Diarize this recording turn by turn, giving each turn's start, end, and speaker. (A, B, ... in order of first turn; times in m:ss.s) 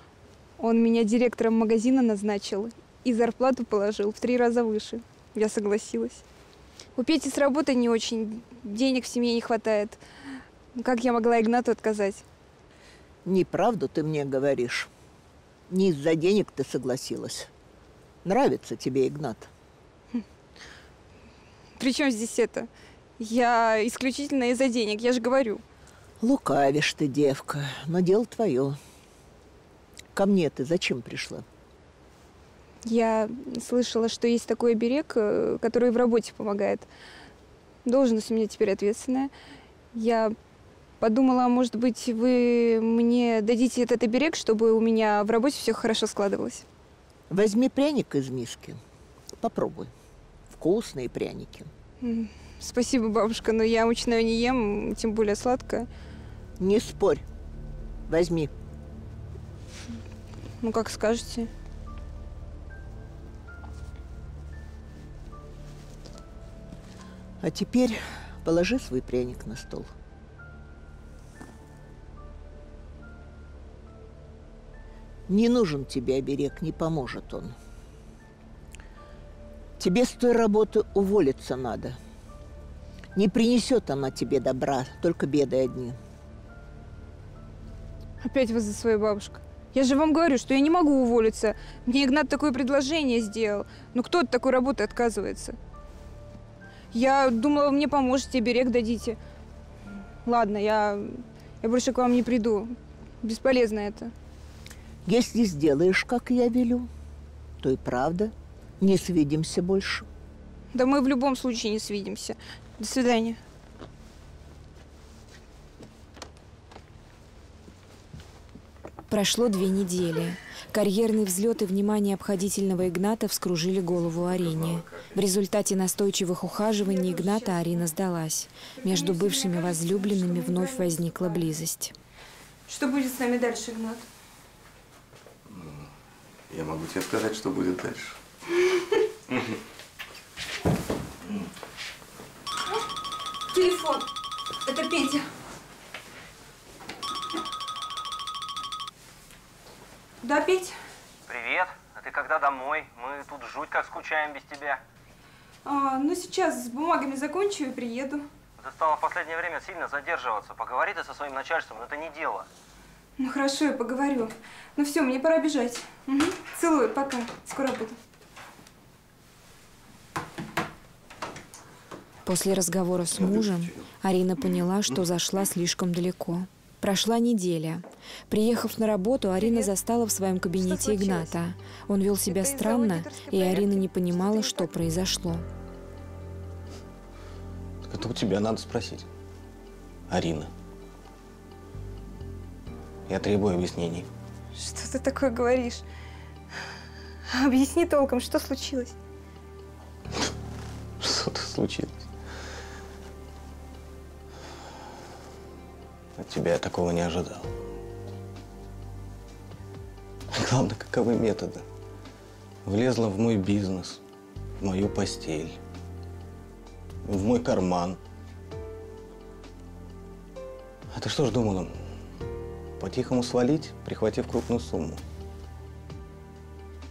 0:00.6-0:06.2 A
0:07.0-0:10.0 A
0:10.8-0:12.2 A
0:13.2-0:14.9 B
0:15.7-0:17.5 B
0:18.2-0:19.5 B
0:21.8-0:22.7 A
0:23.2-0:25.6 A
0:26.2-0:28.8 B
0:30.1-0:31.4 B
0:32.8-0:36.9 A
0:37.8-0:39.3 A
0:39.9-0:40.3 A
0:41.0-0:46.6 A
0:47.3-0:48.8 B
0:49.4-0:49.9 B
0:50.5-0:51.7 B
0:52.0-0:55.9 A
0:56.6-0:57.2 B
0:58.1-0:58.5 B
1:00.6-1:01.5 A
1:07.4-1:09.9 B
1:15.3-1:17.5 B
1:19.8-1:22.0 B
1:23.1-1:26.0 B
1:28.2-1:35.6 A
1:36.9-1:39.2 A
1:40.2-1:44.1 A
1:45.0-1:46.9 B
1:47.6-1:50.0 B
1:50.7-1:53.4 A
1:59.1-2:11.9 C
2:06.8-2:07.9 A
2:08.8-2:11.5 A
2:12.7-2:14.0 A
2:15.5-2:15.8 D
2:16.5-2:18.1 D
2:23.5-2:24.0 A
2:24.6-2:25.2 A
2:30.2-2:30.7 A
2:31.3-2:34.8 E
2:35.6-2:38.2 A
2:38.6-2:42.4 E
2:43.2-2:47.9 A
2:52.2-3:05.4 C
2:59.4-2:59.7 A
3:00.6-3:01.4 A
3:02.3-3:04.7 A
3:07.8-3:09.0 D
3:10.1-3:10.5 D
3:13.1-3:14.1 D
3:14.6-3:15.8 A
3:17.3-3:18.9 A
3:21.0-3:22.0 D
3:26.2-3:27.5 D
3:30.3-3:31.6 D
3:32.6-3:34.0 D
3:34.6-3:35.6 D
3:37.0-3:38.0 D
3:40.9-3:41.7 D
3:42.8-3:45.0 D